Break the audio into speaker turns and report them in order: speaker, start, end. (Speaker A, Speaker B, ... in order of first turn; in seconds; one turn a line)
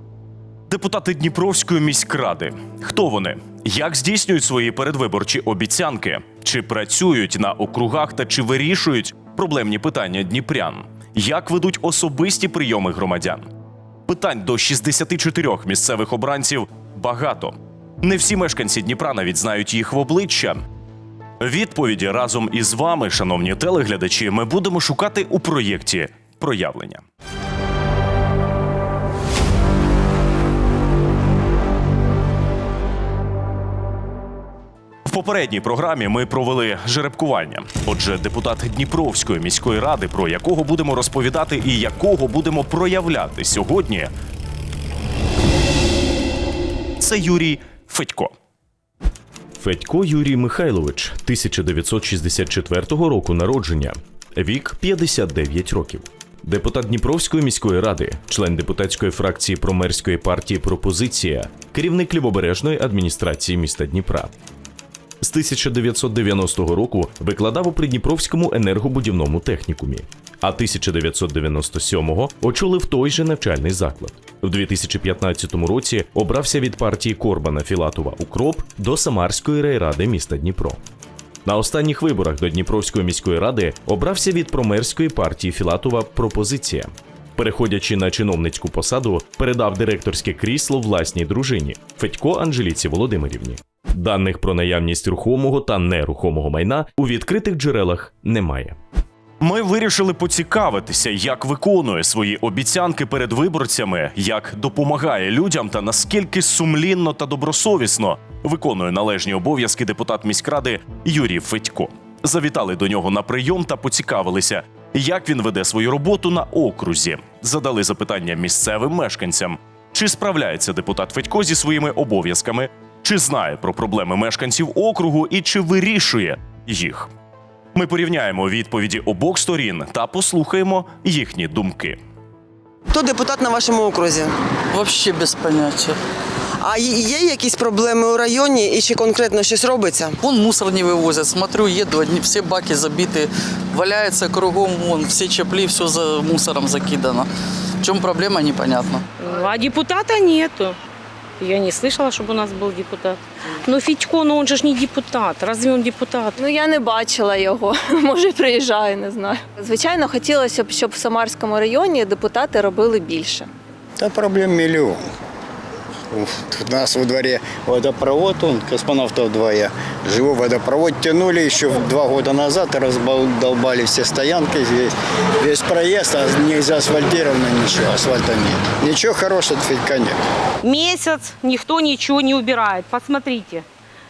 Speaker A: 0.7-13.5
Speaker A: 14.1-20.6
Speaker A: 21.4-27.0
Speaker A: 35.0-44.1
Speaker A: 47.0-48.3
Speaker B: 49.6-64.3
Speaker B: 65.2-80.8
Speaker B: 81.4-98.8
Speaker A: 99.4-127.1
Speaker A: 127.7-132.0
Speaker C: 133.6-134.0
Speaker D: 134.7-136.0
Speaker C: 136.7-139.9
Speaker D: 140.2-147.3
Speaker D: 147.8-149.1
Speaker E: 149.2-150.8
Speaker E: 151.4-156.4
Speaker F: 156.4-163.5
Speaker G: 164.0-165.0
Speaker G: 166.1-180.2
Speaker E: 180.6-183.6